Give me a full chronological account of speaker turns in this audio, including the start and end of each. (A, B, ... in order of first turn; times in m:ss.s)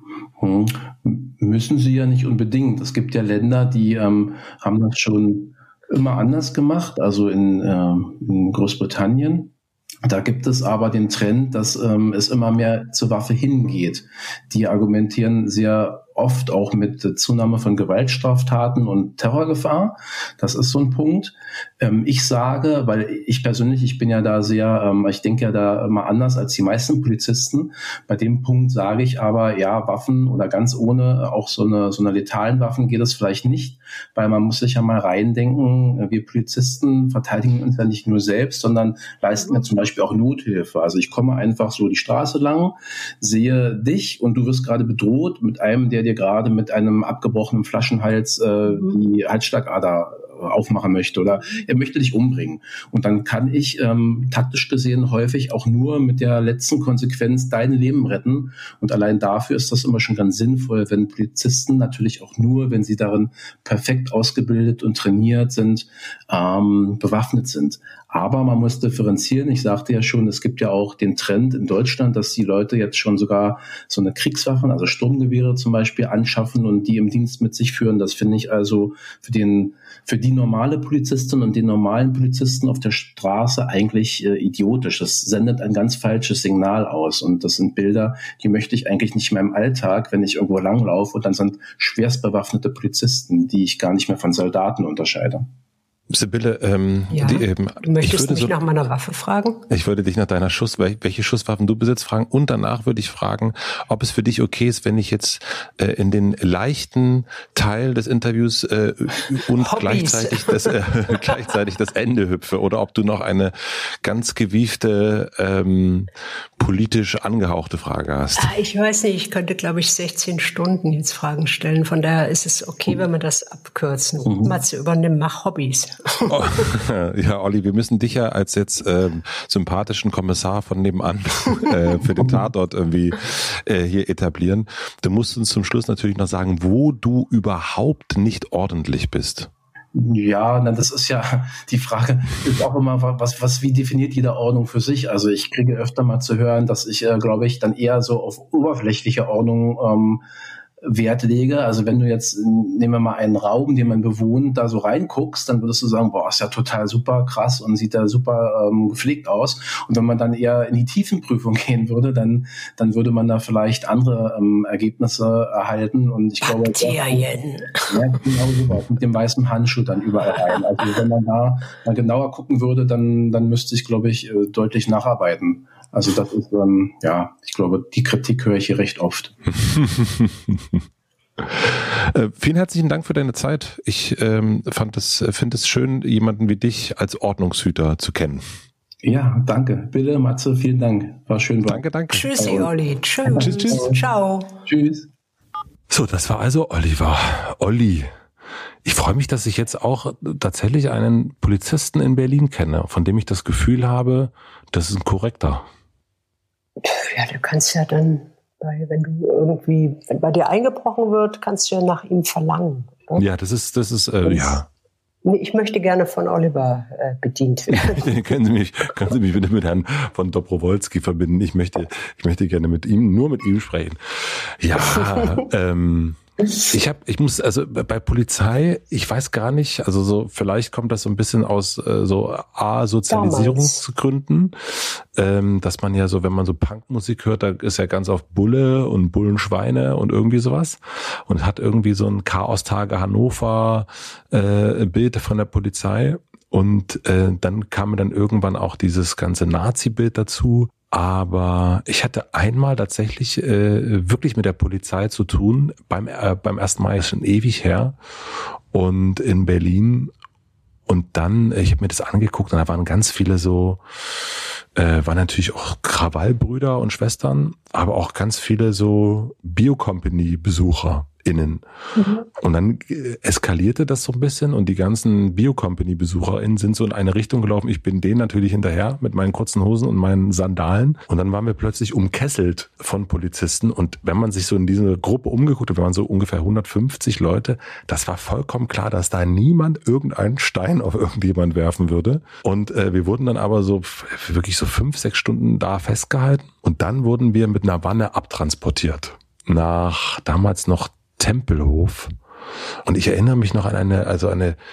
0:00.4-0:09.5 A
0:10.0-1:35.5 A
1:36.1-1:38.6 B
1:37.1-1:39.7 C
1:39.7-1:58.5 B
1:49.6-1:51.3 C
1:58.4-2:06.7 C
2:04.2-2:04.6 A
2:06.3-2:19.5 B
2:19.9-2:30.2 A
2:30.8-2:47.2 A
2:46.4-2:48.3 C
2:47.9-2:59.3 A
2:59.6-3:00.8 B
3:01.4-3:08.4 B
3:09.0-3:11.8 A
3:11.7-3:12.7 B
3:12.1-3:14.5 C
3:13.3-3:14.0 A
3:13.3-3:13.8 B
3:14.6-3:15.1 A
3:15.9-3:18.1 B
3:18.8-3:25.7 B
3:26.8-3:33.3 C
3:33.2-3:34.7 B
3:34.2-3:34.6 C
3:35.2-3:38.2 C
3:37.7-4:20.1 B
3:45.0-3:45.4 C
3:53.1-3:53.8 C
4:20.9-4:24.2 B
4:24.8-4:31.6 B
4:32.0-4:32.3 C
4:32.4-5:02.1 B
5:02.8-5:04.6 B